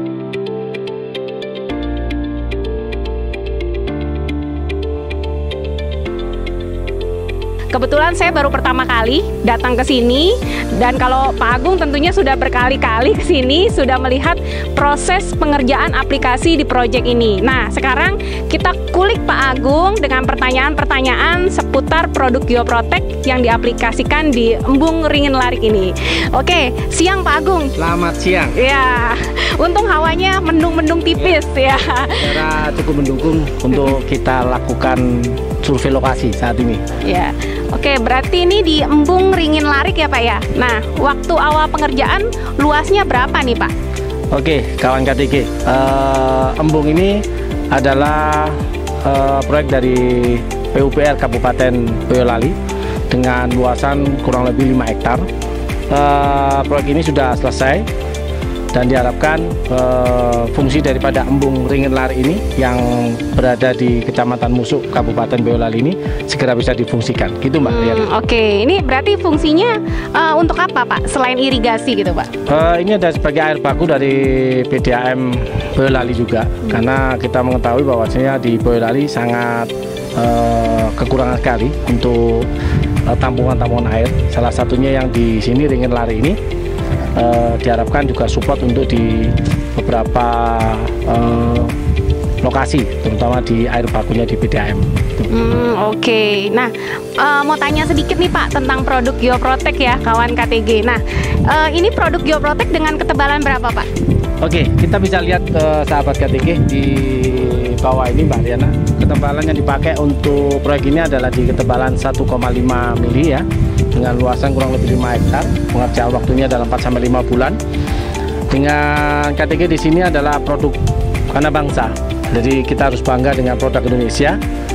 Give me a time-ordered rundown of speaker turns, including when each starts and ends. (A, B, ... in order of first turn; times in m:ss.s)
0:07.7-0:27.7 A
0:27.8-0:28.6 B
0:28.5-0:32.4 A
0:32.2-0:36.8 B
0:37.0-0:43.7 A
0:44.3-0:52.6 B
0:53.1-0:55.3 B
0:55.9-0:57.8 B
0:58.7-1:08.1 B
1:07.6-1:12.3 A
1:12.5-1:22.5 B
1:23.0-1:26.4 B
1:27.1-1:31.7 B
1:32.4-1:35.3 B
1:35.3-1:43.9 A
1:44.4-1:57.6 B
1:58.5-2:00.8 B
2:01.3-2:04.4 B